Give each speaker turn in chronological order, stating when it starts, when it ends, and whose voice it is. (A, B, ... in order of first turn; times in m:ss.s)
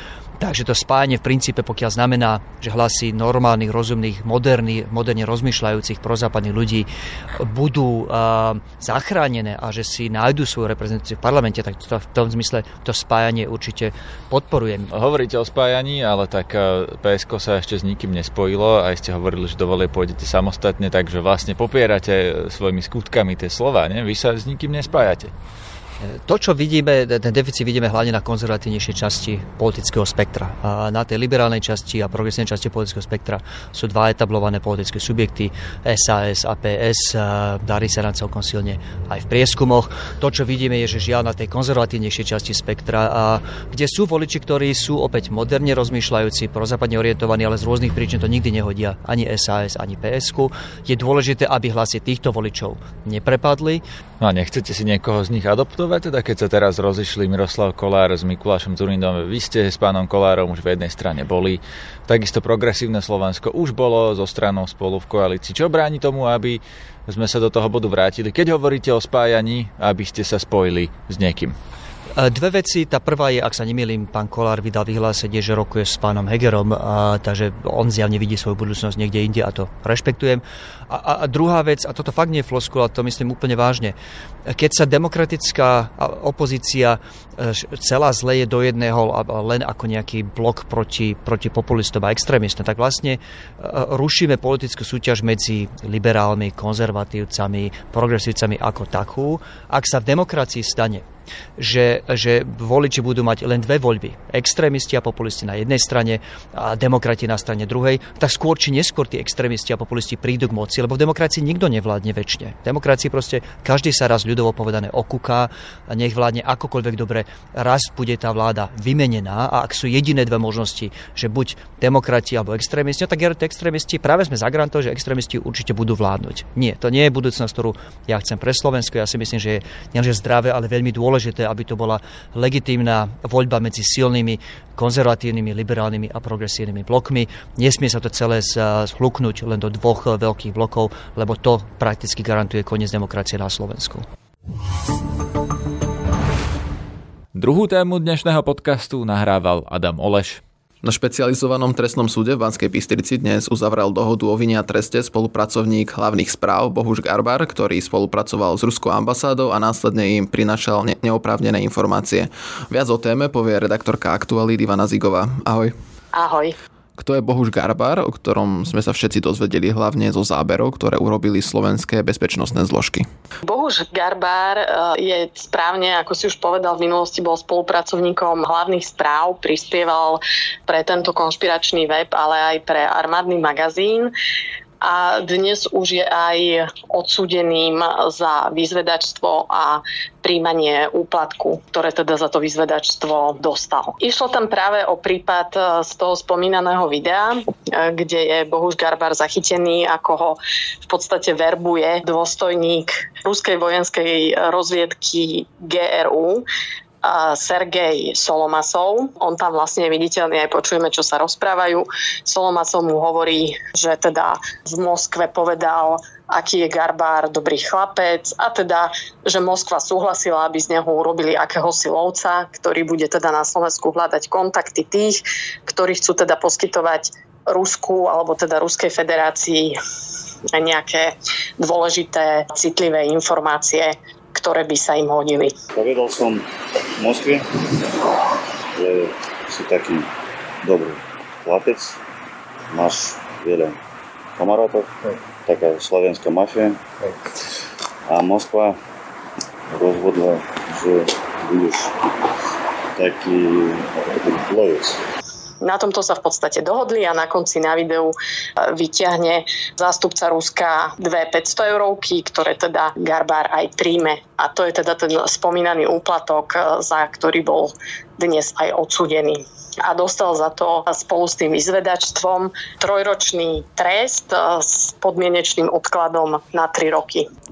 0:00.4-0:14.9 A
0:14.9-0:25.3 B
0:26.0-0:53.8 A
0:54.2-1:11.6 B
1:12.2-1:24.0 A
1:24.5-1:41.0 A
1:41.6-2:24.1 A
2:27.3-2:30.4 B
2:30.8-2:45.7 C
2:46.1-2:46.6 D
2:47.0-2:53.1 C
2:53.4-3:04.1 D
3:04.8-3:26.4 D
3:27.0-3:49.7 D
3:50.5-3:55.5 D
3:55.7-3:56.5 E
3:57.0-3:57.5 E
3:58.8-4:00.1 E
4:00.6-4:02.0 E
4:02.7-4:03.8 E
4:04.4-4:07.2 E
4:08.1-4:08.8 E
4:09.7-4:12.0 E
4:13.0-4:15.0 E
4:15.6-4:37.3 D